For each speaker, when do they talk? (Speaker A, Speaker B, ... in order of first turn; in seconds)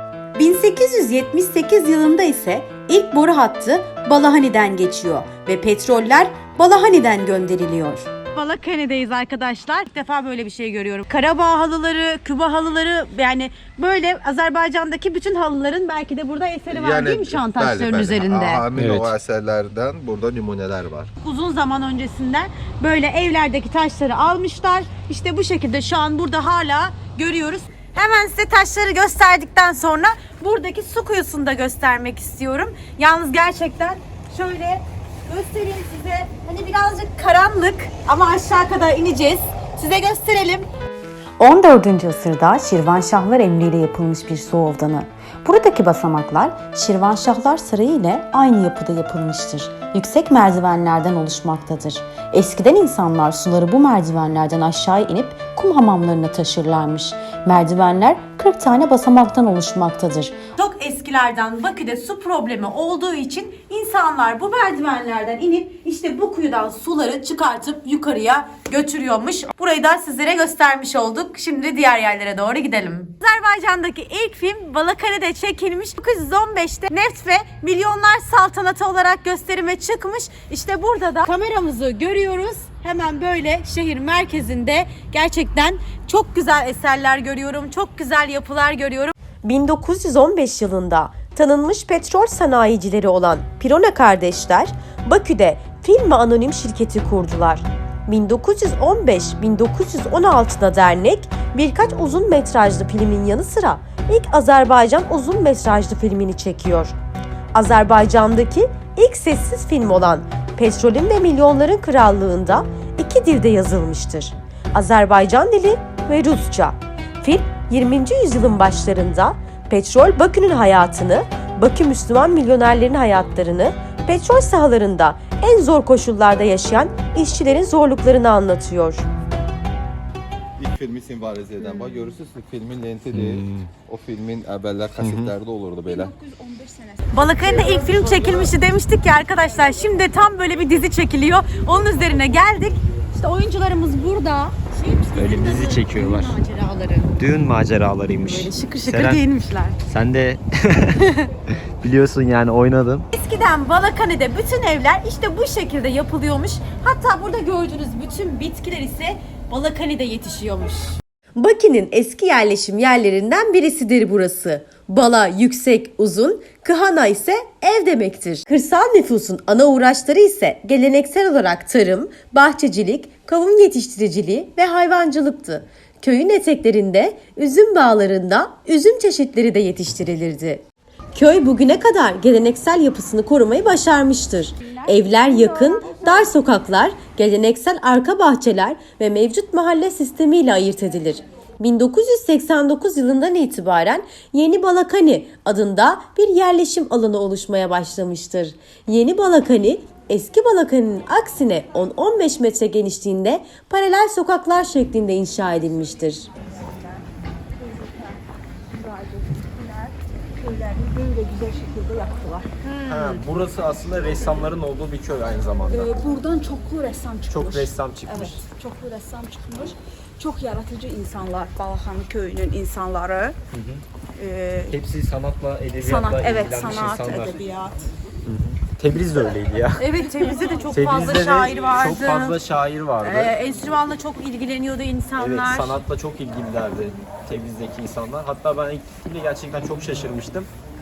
Speaker A: 0.4-18.6, 21.2-40.7, 41.4-106.9, 107.5-129.1, 137.1-147.2, 148.2-149.8, 153.1-180.6, 181.1-206.3, 212.6-213.2, 229.8-232.4, 233.0-235.8
Speaker B: 16.7-21.1, 130.6-136.1
Speaker C: 18.8-19.1, 133.1-133.7, 135.0-135.3, 145.2-146.4, 147.2-149.2, 149.9-153.1, 212.9-216.1, 217.3-218.4, 223.5-223.8, 224.7-227.4, 228.3-229.9, 230.7-233.4, 235.2-240.5
Speaker D: 135.8-138.5, 184.6-186.3, 206.5-207.1, 207.6-212.5, 215.7-223.4, 224.2-224.8, 225.8-227.9